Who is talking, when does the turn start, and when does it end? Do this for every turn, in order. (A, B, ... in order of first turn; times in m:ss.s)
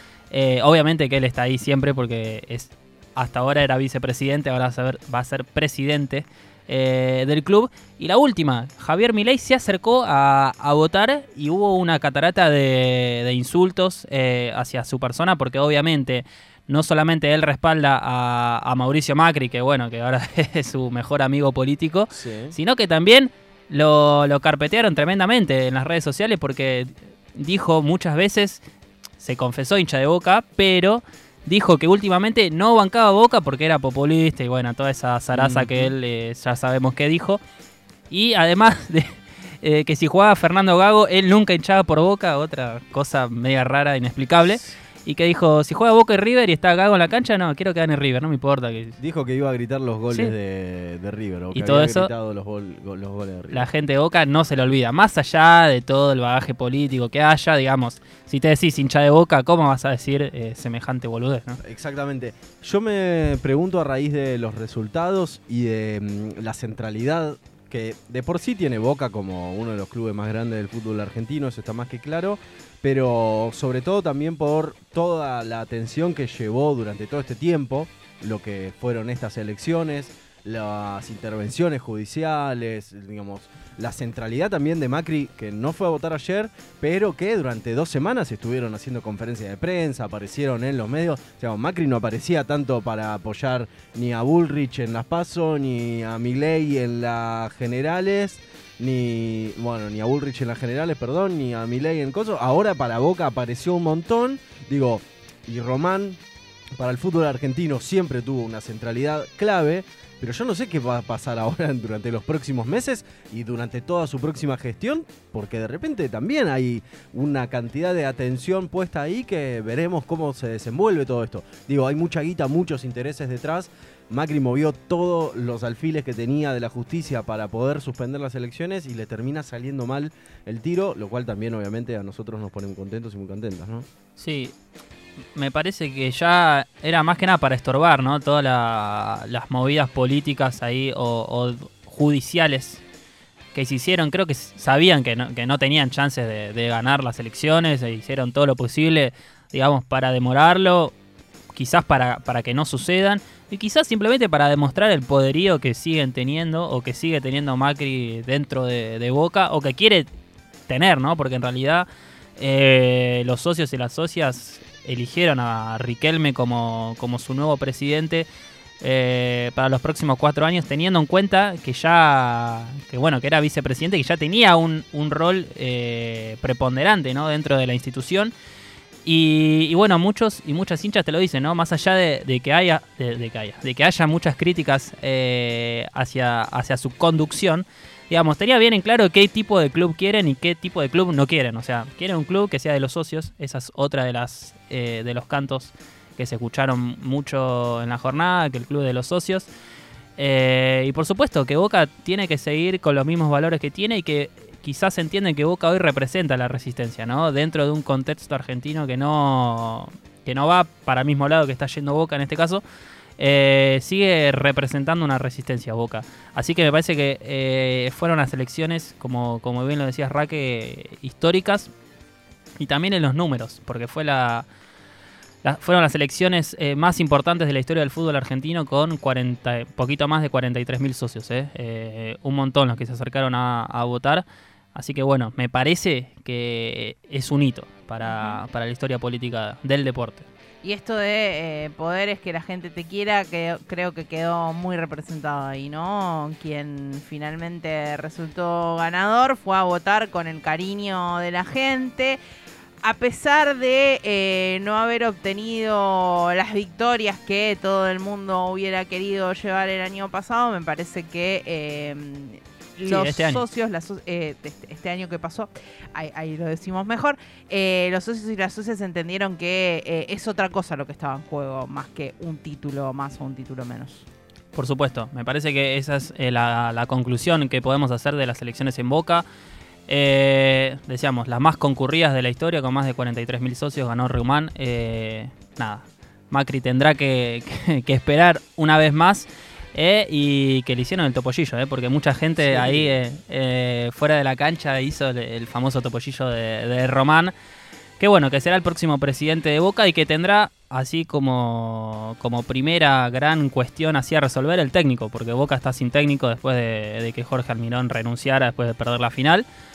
0:00.3-0:28.6 A
0:22.1-0:22.6 B
0:29.2-0:37.4 A
0:35.3-0:35.9 B
0:38.1-0:49.0 A
0:44.5-0:44.8 B
0:49.0-0:53.7 B
0:51.5-0:52.1 A
0:53.5-1:01.6 A
1:01.6-1:46.2 B
1:46.8-2:13.8 B
2:14.2-2:14.5 A
2:15.3-2:22.8 A
2:23.5-2:30.9 A
2:31.5-2:40.1 A
2:40.7-2:48.3 A
2:48.8-2:58.3 A
2:59.0-3:19.5 A
3:20.2-3:32.6 A
3:33.2-3:41.7 A
3:42.6-3:44.4 A
3:45.4-4:00.2 A
3:58.0-3:58.4 C
4:00.6-4:12.2 C
4:12.8-4:34.0 C
4:22.8-4:23.4 A
4:34.5-4:39.2 A
4:39.9-4:57.3 A
4:52.4-4:53.0 B
4:58.0-5:09.4 A